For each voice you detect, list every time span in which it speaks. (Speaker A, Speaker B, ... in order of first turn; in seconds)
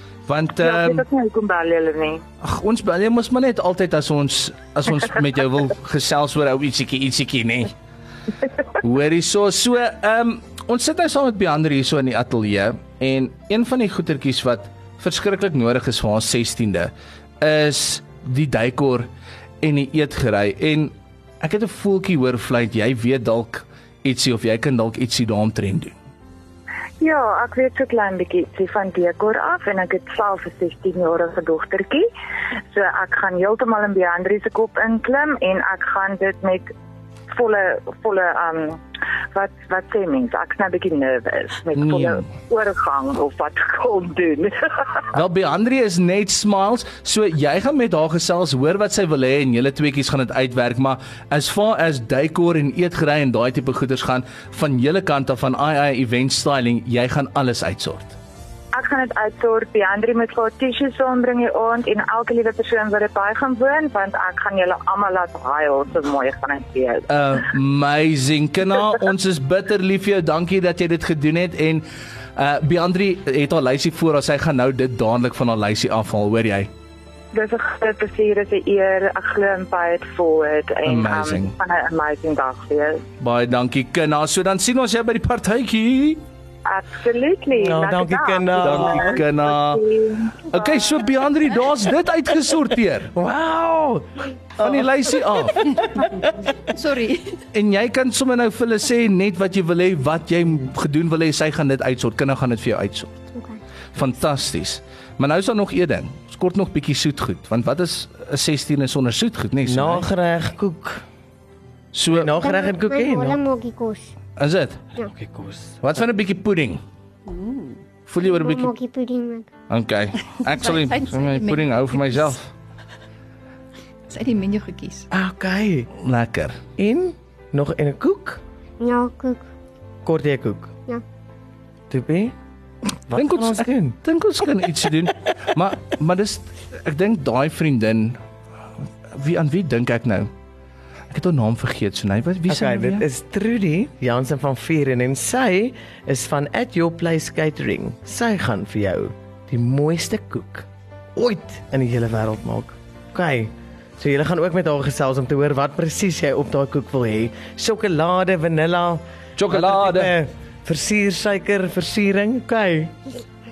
Speaker A: 0.3-1.0, 2.4-7.7, 8.8-19.1, 19.6-26.0, 41.7-42.3, 45.1-58.2, 67.1-76.7, 80.8-81.5, 83.2-86.2, 88.6-89.8, 90.4-93.1, 94.6-96.0, 97.5-103.3, 103.9-110.1, 111.9-112.4, 114.4-114.8, 115.8-116.8, 118.0-118.7, 119.7-122.5, 125.9-126.6, 133.1-138.2, 139.1-140.3, 141.1-143.0, 159.4-160.1
Speaker B: 0.6-2.2, 27.0-32.1, 32.7-36.7, 37.3-38.8, 39.3-45.1, 58.7-67.1, 77.3-83.0, 86.6-90.8
Speaker C: 87.5-89.2, 93.1-96.6, 109.7-111.0, 112.1-113.4, 115.1-115.8, 125.1-125.9, 126.8-128.4, 130.0-130.7, 131.9-132.3, 133.1-134.0, 142.5-163.2
Speaker D: 96.8-97.4, 117.3-117.8, 120.6-121.6, 124.1-125.0
Speaker E: 103.3-103.6, 112.4-114.1, 118.2-119.5, 128.8-129.5